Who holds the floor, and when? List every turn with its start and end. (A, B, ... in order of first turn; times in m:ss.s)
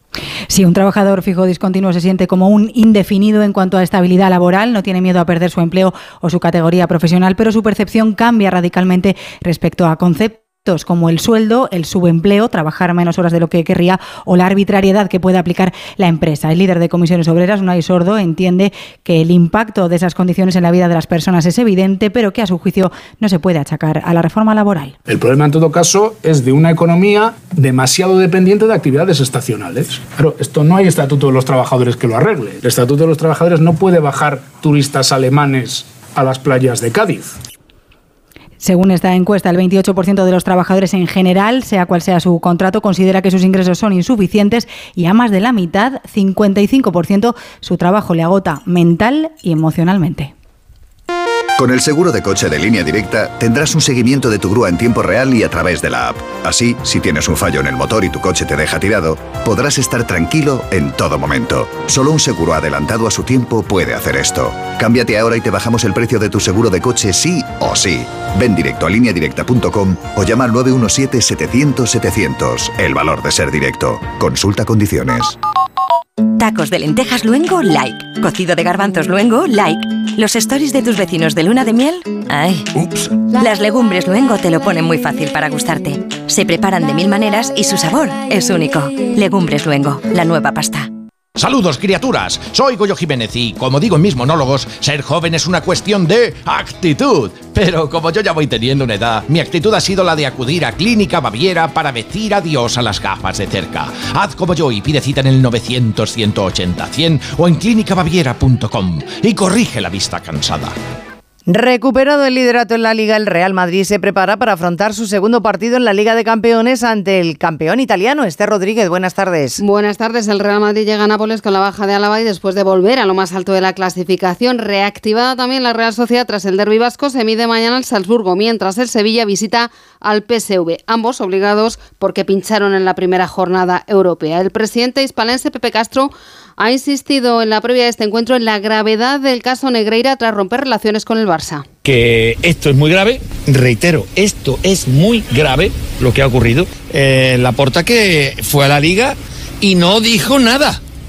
0:00.5-0:25.0 A
0:25.1-0:37.4 B
0:38.6-0:50.3 A
0:51.6-1:15.4 C
1:16.4-1:22.7 D
1:23.4-1:30.9 D
1:31.4-1:50.8 E
1:51.5-1:59.6 F
1:59.6-2:21.6 G
2:21.8-2:30.8 H